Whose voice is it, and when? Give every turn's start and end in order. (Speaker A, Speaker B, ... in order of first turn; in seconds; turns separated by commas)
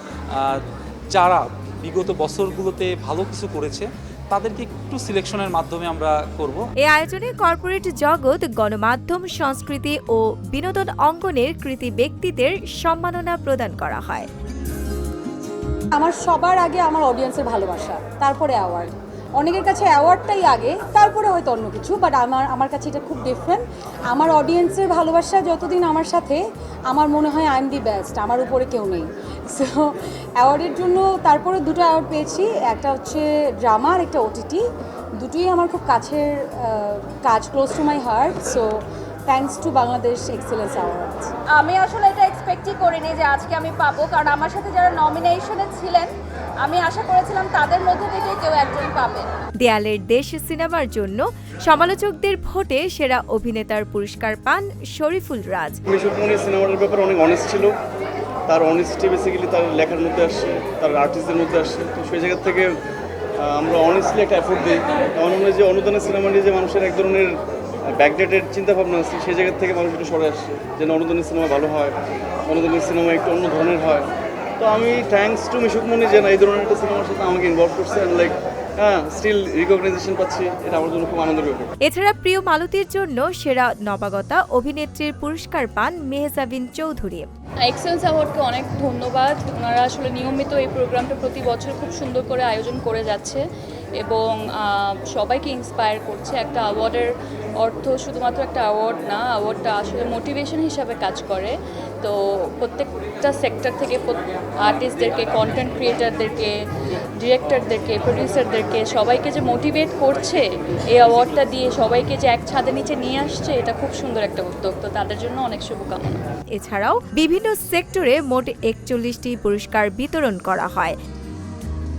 Speaker A: 1.1-6.7, Speaker B: 6.8-14.3, Speaker C: 15.9-34.6, Speaker C: 35.2-41.3, Speaker D: 41.5-49.3, Speaker B: 49.6-55.8, Speaker E: 55.9-57.8, Speaker E: 58.5-62.8, Speaker E: 63.4-67.3, Speaker E: 68.0-74.1, Speaker E: 74.6-81.7, Speaker B: 81.8-87.3, Speaker F: 87.7-93.4, Speaker F: 94.0-106.6, Speaker F: 107.2-116.2, Speaker B: 116.5-121.0